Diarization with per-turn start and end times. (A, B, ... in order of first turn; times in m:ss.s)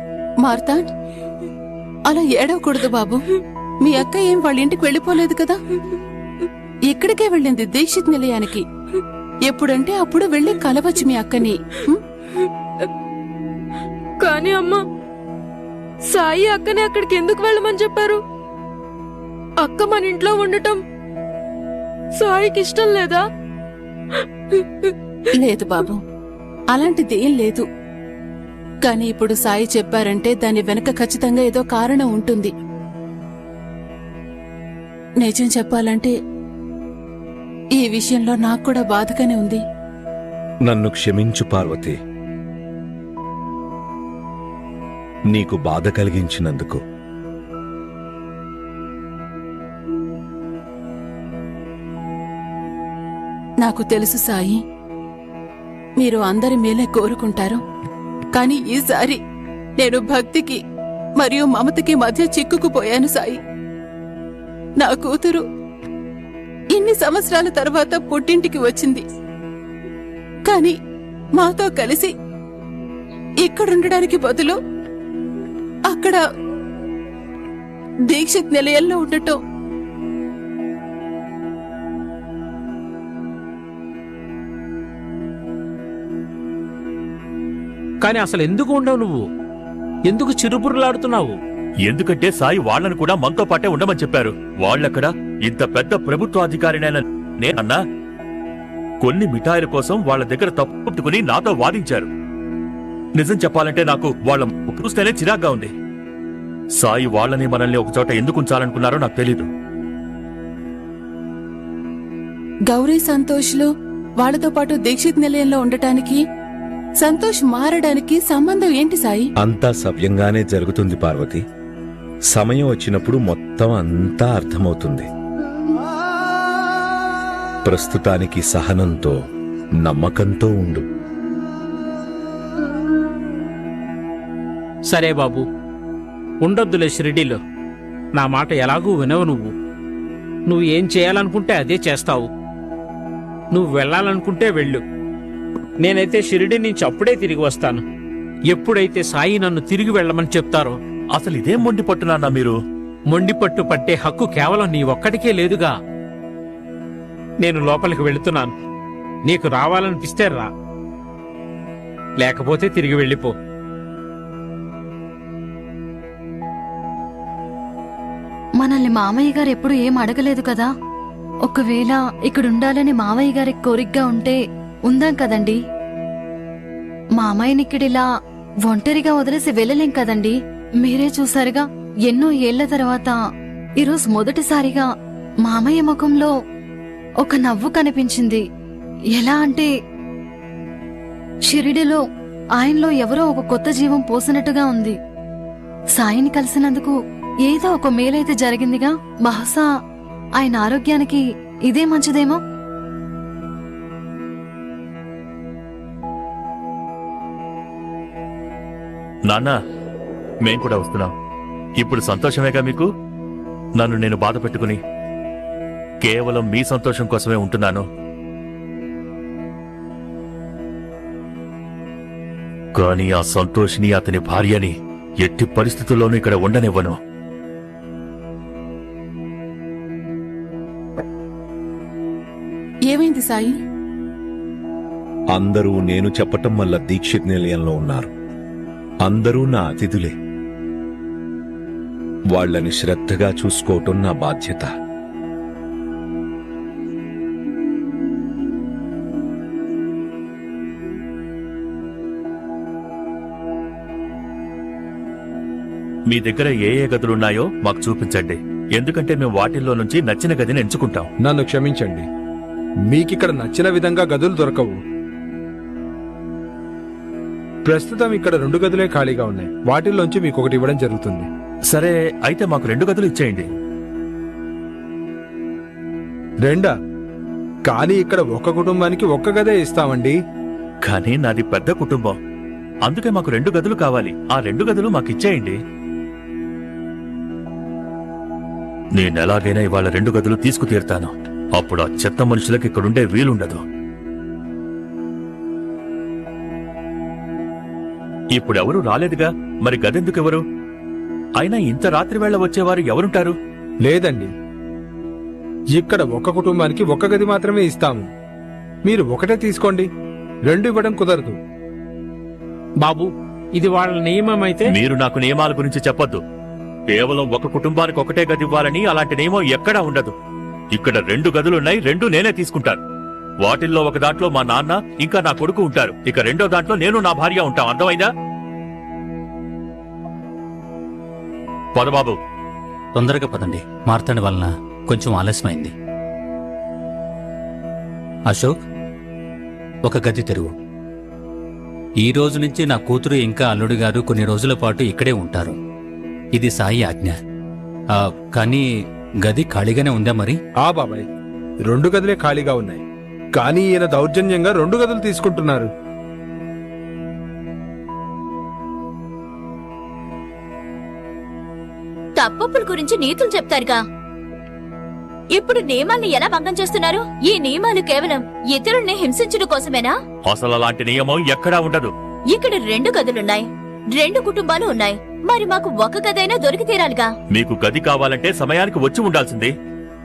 0:00.4-0:00.8 A
0:02.1-0:03.2 A
0:03.8-0:05.6 A
0:06.9-0:08.6 A
0:09.5-0:12.0 A
0:14.2-0:14.8 B
0:16.1-0:18.2 B
0:19.6-0:20.8 B
0:22.2-0:23.2 B
0:25.3-0:26.0 A
0:26.7-0:27.6 A
0:28.8-0:32.5 A
0:35.2-0:36.1 A
0:37.8-0:39.6 A
0:40.7-0:41.9 C
0:45.3-0:46.8 C
0:53.6-0:54.6 A
0:56.0-0:57.6 A
0:58.3-0:59.2 A
0:59.8-1:00.6 A
1:01.2-1:03.4 A
1:04.8-1:05.4 A
1:06.7-1:09.0 A
1:10.5-1:10.8 A
1:11.4-1:12.1 A
1:13.4-1:14.5 A
1:15.9-1:16.2 A
1:18.1-1:19.4 A
1:28.0-1:29.2 D
1:30.1-1:31.4 D
1:31.8-1:37.8 E
1:39.0-1:42.1 E
1:43.2-1:45.7 E
1:46.8-1:49.5 E
1:52.7-1:53.7 A
1:54.2-1:56.2 A
1:57.0-1:59.3 A
1:59.4-2:01.4 C
2:02.3-2:05.1 C
2:07.6-2:09.1 C
2:09.8-2:10.8 C
2:14.9-2:15.4 D
2:16.4-2:17.4 D
2:18.2-2:19.5 D
2:20.5-2:22.3 D
2:23.5-2:24.8 D
2:25.8-2:27.8 D
2:28.5-2:30.8 D
2:31.1-2:32.5 E
2:33.1-2:35.7 D
2:37.4-2:38.5 D
2:39.2-2:40.5 D
2:42.2-2:43.3 D
2:48.6-2:50.7 F
2:51.5-2:55.6 F
2:57.2-2:58.0 F
2:58.6-3:03.2 F
3:03.8-3:04.9 F
3:05.4-3:06.3 F
3:07.2-3:08.4 F
3:09.2-3:09.7 F
3:11.5-3:12.0 F
3:12.6-3:15.0 F
3:16.0-3:16.9 F
3:17.4-3:19.6 F
3:20.4-3:22.4 F
3:30.4-3:31.1 E
3:31.8-3:32.9 E
3:33.8-3:34.8 E
3:36.0-3:37.8 E
3:42.8-3:46.9 E
3:52.9-3:53.5 A
3:55.3-3:58.1 C
3:59.0-4:00.1 C
4:02.3-4:04.7 C
4:16.1-4:21.1 E
4:21.2-4:22.0 G
4:22.9-4:24.8 G
4:27.6-4:31.3 G
4:31.7-4:33.5 E
4:36.4-4:36.7 G
4:37.7-4:40.1 G
4:40.8-4:42.1 E
4:42.9-4:45.6 E
4:49.0-4:53.6 E
4:58.4-5:00.4 E
5:01.4-5:03.3 E
5:03.8-5:04.3 G
5:05.8-5:08.1 G
5:08.8-5:09.9 G
5:10.5-5:11.4 G
5:12.8-5:14.7 D
5:14.7-5:16.2 E
5:16.9-5:20.1 E
5:20.7-5:22.8 E
5:23.4-5:28.1 E
5:31.7-5:32.2 E
5:32.9-5:35.7 H
5:38.3-5:38.5 H
5:39.8-5:40.5 H
5:42.0-5:45.6 H
5:46.3-5:47.2 H
5:47.9-5:48.7 H
5:49.2-5:50.4 H
5:50.6-5:51.0 G
5:51.7-5:52.8 G
5:53.3-5:55.7 G
6:02.2-6:03.8 I
6:05.3-6:09.9 I
6:10.3-6:11.9 E
6:12.3-6:17.1 I
6:17.3-6:19.5 E